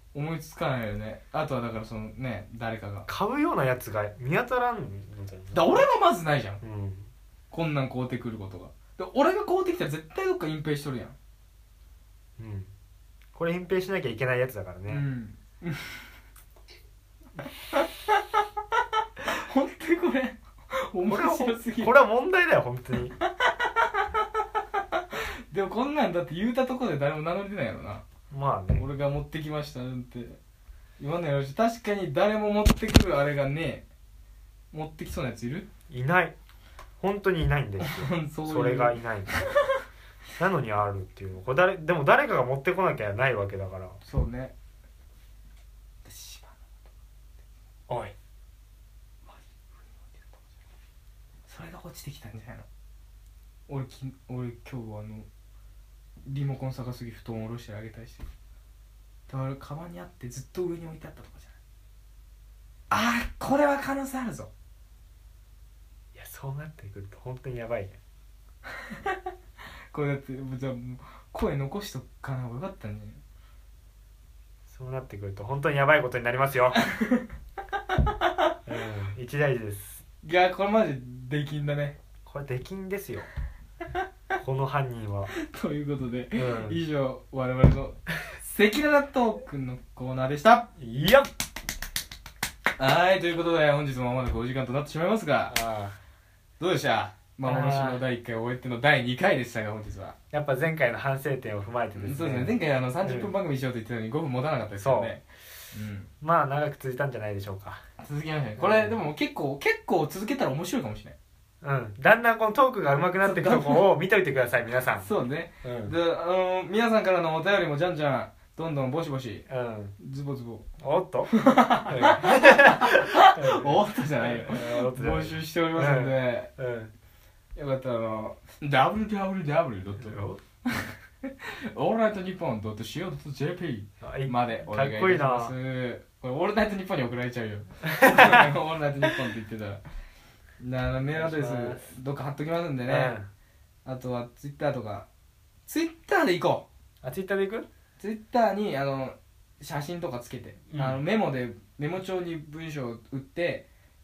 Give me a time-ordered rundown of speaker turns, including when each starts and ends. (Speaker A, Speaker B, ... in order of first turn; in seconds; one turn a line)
Speaker A: 0.1-3.1
Speaker B: 3.1-5.8
Speaker A: 5.5-6.6
Speaker B: 6.6-7.1
Speaker A: 7.5-11.2
Speaker B: 12.4-12.7
Speaker B: 13.3-15.1
Speaker A: 14.9-16.0
Speaker A: 17.7-18.4
Speaker A: 19.2-21.9
Speaker B: 21.1-23.1
Speaker A: 23.2-28.1
Speaker B: 28.3-28.9
Speaker A: 28.8-30.4
Speaker A: 31.0-33.9
Speaker A: 34.7-35.7
Speaker B: 35.9-36.4
Speaker B: 37.0-39.3
Speaker A: 37.8-39.8
Speaker B: 40.4-44.0
Speaker A: 44.0-44.5
Speaker A: 46.0-46.7
Speaker B: 47.9-48.1
Speaker A: 50.0-50.4
Speaker A: 51.5-52.7
Speaker A: 53.7-55.3
Speaker A: 56.3-58.3
Speaker A: 59.3-61.6
Speaker A: 62.9-64.5
Speaker B: 66.1-68.0
Speaker A: 68.8-69.2
Speaker A: 69.9-73.2
Speaker B: 74.7-76.8
Speaker A: 76.8-78.6
Speaker B: 78.7-80.0
Speaker A: 80.2-82.0
Speaker B: 82.3-83.3
Speaker B: 84.4-85.3
Speaker A: 85.3-90.7
Speaker B: 86.3-86.8
Speaker B: 90.8-91.3
Speaker A: 92.8-95.6
Speaker B: 95.5-96.0
Speaker A: 96.6-100.2
Speaker B: 97.5-98.0
Speaker B: 100.3-103.3
Speaker A: 102.0-106.1
Speaker B: 104.8-105.2
Speaker B: 106.2-107.8
Speaker A: 108.0-111.2
Speaker B: 108.6-109.0
Speaker B: 111.6-115.1
Speaker A: 113.2-113.8
Speaker A: 115.0-119.5
Speaker B: 115.6-116.0
Speaker B: 119.5-120.0
Speaker A: 120.0-120.7
Speaker B: 120.8-121.3
Speaker A: 121.3-126.5
Speaker B: 121.9-126.9
Speaker A: 127.5-139.8
Speaker B: 130.0-130.4
Speaker B: 134.0-135.6
Speaker B: 138.0-138.5
Speaker A: 140.6-143.2
Speaker B: 141.2-141.9
Speaker B: 142.9-143.3
Speaker A: 143.8-145.1
Speaker A: 145.7-146.7
Speaker B: 147.0-147.7
Speaker A: 148.0-153.7
Speaker B: 150.7-151.0